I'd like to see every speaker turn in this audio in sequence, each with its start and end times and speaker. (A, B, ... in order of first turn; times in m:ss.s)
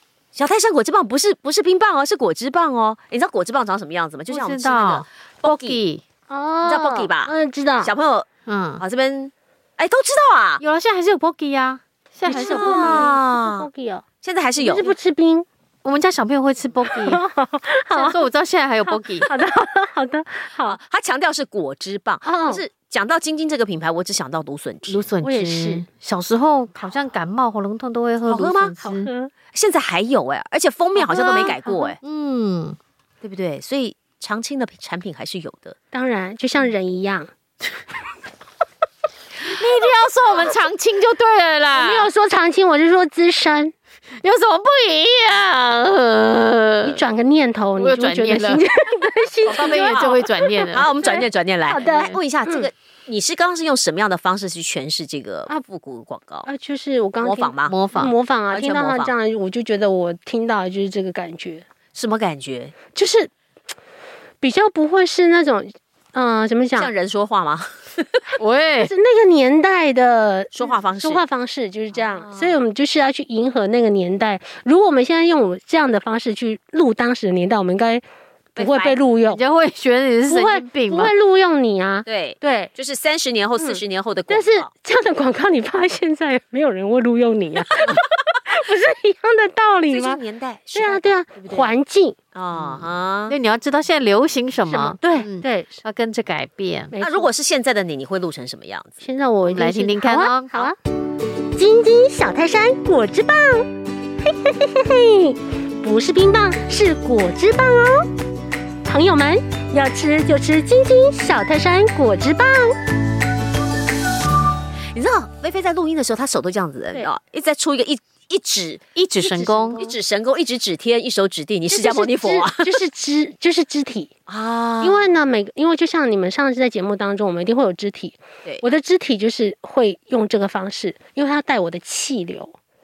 0:00.4-0:05.8 A
0:04.3-0:06.0 B
0:06.3-0:07.9 C
0:06.6-0:08.3 A
0:08.5-0:08.8 B
0:08.8-0:10.6 A
0:10.6-0:13.1 B
0:12.3-0:14.1 C
0:12.3-0:13.7 A
0:14.2-0:15.0 A
0:14.6-0:15.5 C
0:15.8-0:17.2 B
0:16.9-0:18.2 C
0:17.9-0:19.3 B
0:18.9-0:20.8 C
0:20.7-0:25.1 A
0:22.2-0:22.6 C
0:24.9-0:29.1 B
0:25.2-0:25.8 C
0:28.3-0:28.8 A
0:28.8-0:29.3 C
0:29.5-0:32.0 A
0:31.0-0:32.0 C
0:31.1-0:32.8 B
0:33.2-0:35.8 A
0:35.9-0:37.3 C
0:39.4-0:42.1 B
0:41.7-0:43.7 C
0:44.2-0:47.0 B
0:46.8-0:52.7 C
0:47.8-0:48.7 B
0:49.4-0:50.9 B
0:49.5-0:50.2 A
0:50.7-0:56.5 A
0:51.8-0:52.2 B
0:56.4-1:01.6 C
0:57.2-0:57.8 A
0:57.6-0:58.1 B
0:58.5-0:59.1 A
1:01.9-1:02.8 A
1:03.0-1:03.3 C
1:04.4-1:06.9 C
1:06.8-1:08.2 A
1:08.4-1:08.9 B
1:08.8-1:19.4 C
1:10.5-1:11.2 A
1:12.1-1:12.6 A
1:18.6-1:19.0 A
1:19.3-1:21.1 B
1:20.3-1:22.7 C
1:22.1-1:24.7 A
1:23.6-1:30.2 C
1:29.9-1:31.7 A
1:30.7-1:32.2 C
1:32.4-1:33.4 A
1:32.6-1:36.9 B
1:34.7-1:35.8 C
1:36.9-1:37.3 C
1:37.0-1:39.0 A
1:39.0-1:40.8 C
1:39.5-1:40.5 B
1:41.6-1:43.7 C
1:44.3-1:48.1 C
1:48.8-1:52.8 C
1:54.9-1:58.8 A
1:59.0-1:59.8 B
1:59.2-1:59.9 C
1:59.8-2:02.8 A
2:01.7-2:04.1 C
2:04.3-2:05.2 A
2:04.8-2:12.6 C